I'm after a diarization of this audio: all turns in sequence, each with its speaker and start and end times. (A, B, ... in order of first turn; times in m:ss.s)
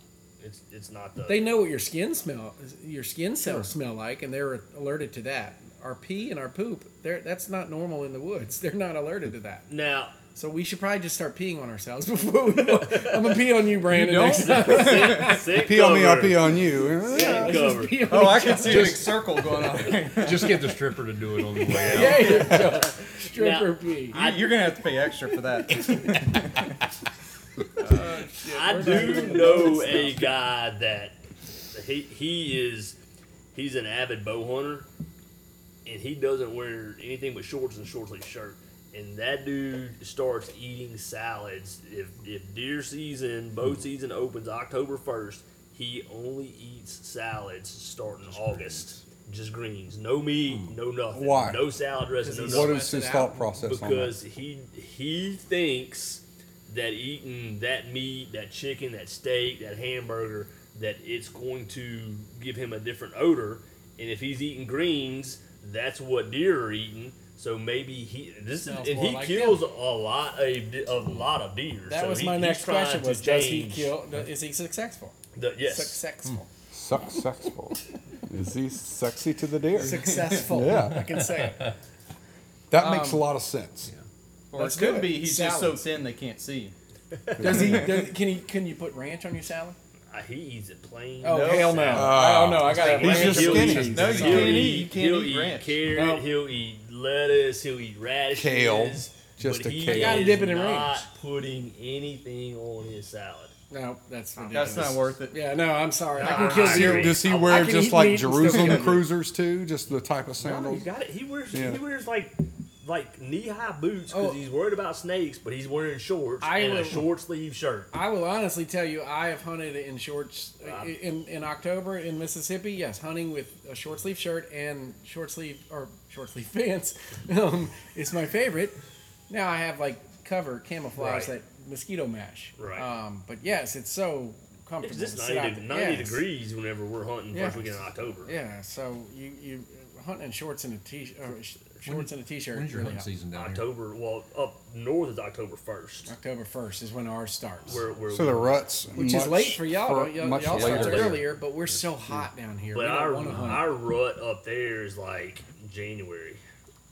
0:00.4-0:01.5 A
0:01.2-0:09.6 B
0:03.4-0:03.7 A
0:09.7-0:10.2 A
0:10.3-0:15.4 B
0:12.6-0:13.4 A
0:13.9-0:15.4 C
0:14.2-0:18.1 A
0:15.5-0:17.6 D
0:17.0-0:19.1 B
0:18.1-0:20.8 C
0:18.6-0:19.1 E
0:19.8-0:22.5 E
0:21.6-0:22.1 C
0:21.7-0:22.6 A
0:21.7-0:24.2 B
0:23.2-0:24.8 A
0:24.1-0:26.7 C
0:27.8-0:30.3 B
0:28.4-0:31.2 A
0:28.8-0:29.6 C
0:31.7-0:33.0 A
0:33.5-0:34.8 A
0:35.8-0:52.8 A
0:48.3-0:48.8 D
0:50.5-0:50.8 E
0:51.1-0:51.6 D
0:52.2-0:53.5 B
0:52.4-0:54.2 D
0:53.6-1:13.9 A
1:08.6-1:09.6 B
1:11.9-1:16.5 B
1:15.4-1:16.0 A
1:16.7-1:21.0 D
1:19.7-1:20.5 C
1:19.8-1:21.7 B
1:21.2-1:21.7 E
1:22.7-1:23.9 D
1:22.8-1:23.2 B
1:24.5-1:26.7 C
1:24.6-1:25.8 B
1:27.2-1:27.7 A
1:27.4-1:28.0 D
1:27.4-1:29.8 B
1:27.6-1:27.9 C
1:30.1-1:43.5 A
1:31.2-1:34.8 B
1:31.2-1:32.1 C
1:31.9-1:34.4 D
1:33.5-1:35.7 C
1:33.7-1:34.6 E
1:35.9-1:36.2 B
1:38.3-1:40.4 D
1:39.8-1:41.0 B
1:43.7-1:49.1 B
1:44.5-1:45.4 C
1:44.5-1:44.9 A
1:46.2-1:47.6 A
1:46.2-1:46.6 C
1:46.3-1:50.9 D
1:50.4-1:57.9 A
1:51.5-1:51.8 D
1:54.1-1:54.4 B
1:56.4-1:57.1 B
1:57.9-2:08.8 B
2:00.6-2:00.9 A
2:09.3-2:16.2 B
2:11.0-2:11.3 A
2:12.6-2:12.9 A
2:14.8-2:18.3 A
2:17.3-2:23.1 B
2:21.8-2:23.6 E
2:23.3-2:26.1 A
2:26.1-2:27.8 B
2:27.7-2:28.6 A
2:28.1-2:31.3 D
2:28.9-2:33.7 B
2:30.5-2:31.2 A
2:30.5-2:31.2 E
2:32.7-2:36.4 A
2:33.2-2:33.6 E